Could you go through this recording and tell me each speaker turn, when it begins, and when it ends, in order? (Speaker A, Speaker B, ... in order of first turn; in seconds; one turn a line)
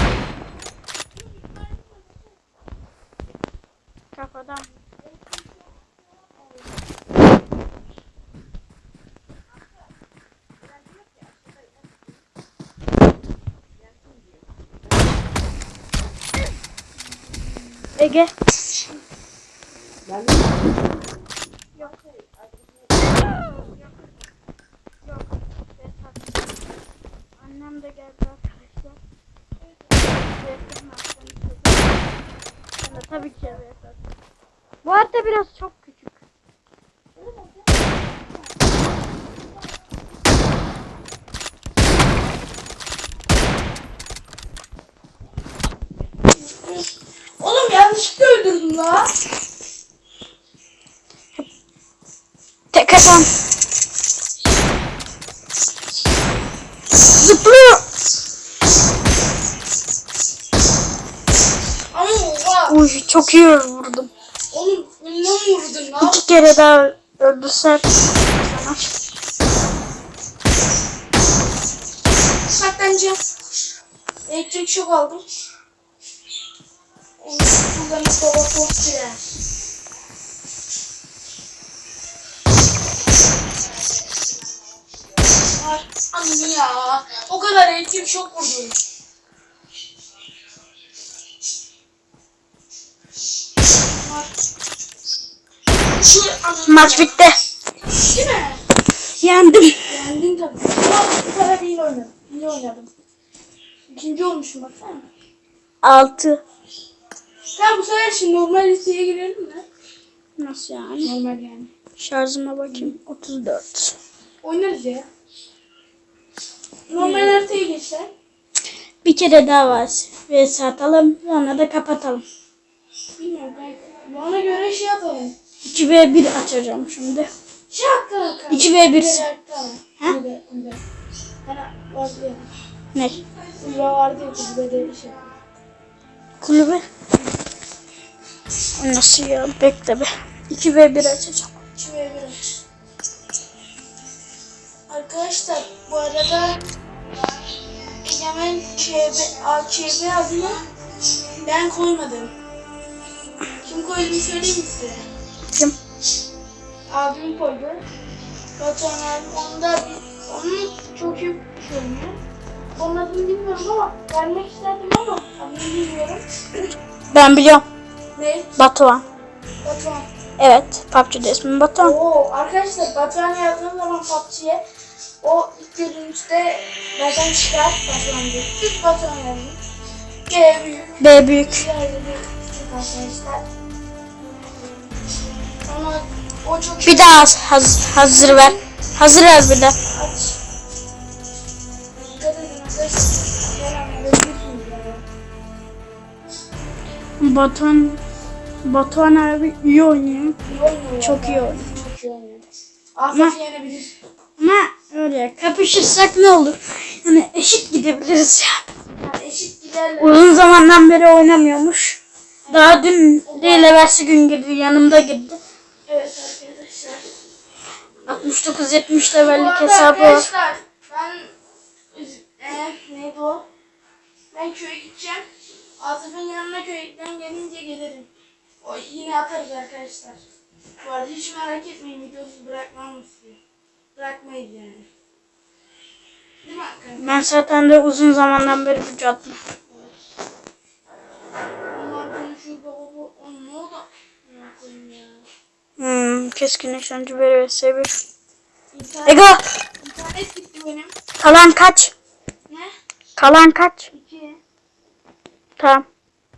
Speaker A: 1.1-2.3
Speaker B: 4.1-4.8
Speaker A: 5.0-6.7
Speaker B: 18.0-18.3
Speaker B: 25.0-26.4
Speaker B: 27.4-29.0
Speaker A: 29.8-30.1
Speaker B: 30.3-32.0
Speaker B: 32.8-34.0
Speaker A: 32.9-33.6
Speaker B: 34.8-36.2
Speaker A: 37.1-38.6
Speaker A: 46.3-49.1
Speaker B: 52.7-53.3
Speaker B: 57.1-57.8
Speaker A: 61.9-62.8
Speaker B: 62.7-64.1
Speaker A: 64.5-66.2
Speaker B: 66.0-68.9
Speaker A: 72.4-73.2
Speaker A: 74.3-75.2
Speaker A: 77.2-79.4
Speaker A: 85.5-88.8
Speaker A: 94.0-94.3
Speaker A: 95.9-97.1
Speaker B: 96.7-97.4
Speaker A: 98.0-98.6
Speaker B: 99.2-99.8
Speaker A: 99.9-102.9
Speaker A: 103.9-105.1
Speaker B: 105.8-106.4
Speaker A: 107.5-109.7
Speaker B: 110.4-111.1
Speaker A: 111.0-111.7
Speaker B: 112.0-114.0
Speaker A: 114.4-115.1
Speaker A: 116.9-118.1
Speaker B: 117.0-117.4
Speaker B: 119.0-122.2
Speaker A: 123.2-125.3
Speaker B: 125.6-127.3
Speaker A: 127.7-130.8
Speaker B: 128.5-129.2
Speaker A: 131.4-132.5
Speaker B: 132.9-133.2
Speaker A: 133.5-135.3
Speaker B: 136.4-136.8
Speaker B: 138.8-141.5
Speaker A: 141.8-142.4
Speaker A: 144.9-146.6
Speaker A: 148.0-150.7
Speaker A: 151.4-152.3
Speaker A: 153.6-155.1
Speaker A: 156.9-157.8
Speaker A: 158.6-162.2
Speaker A: 162.7-166.2
Speaker B: 167.1-167.6
Speaker A: 168.1-168.5
Speaker B: 168.6-169.0
Speaker A: 169.6-170.1
Speaker B: 170.4-172.0
Speaker A: 171.8-174.6
Speaker A: 175.2-179.6
Speaker A: 180.3-183.4
Speaker B: 181.0-181.6
Speaker A: 185.6-187.3
Speaker B: 186.8-189.8
Speaker A: 187.9-188.6
Speaker A: 189.9-190.4
Speaker A: 192.2-195.0
Speaker B: 197.2-198.0
Speaker B: 198.6-200.4
Speaker A: 200.4-203.9
Speaker B: 201.0-201.7
Speaker B: 204.4-208.6
Speaker A: 209.0-210.3
Speaker B: 210.0-215.4
Speaker A: 212.4-213.8
Speaker A: 215.9-217.1
Speaker B: 218.1-220.3
Speaker A: 219.2-221.3
Speaker A: 221.9-223.5
Speaker A: 224.3-225.3
Speaker A: 225.8-228.1
Speaker A: 228.6-230.2
Speaker A: 230.8-233.4
Speaker A: 233.9-234.9
Speaker A: 236.4-237.2
Speaker B: 237.0-239.4
Speaker A: 241.7-245.2
Speaker B: 245.8-247.9
Speaker A: 248.7-249.3
Speaker B: 249.1-249.4
Speaker A: 249.8-250.9
Speaker B: 251.2-251.9
Speaker B: 253.2-253.9
Speaker A: 253.9-254.4
Speaker B: 255.6-255.8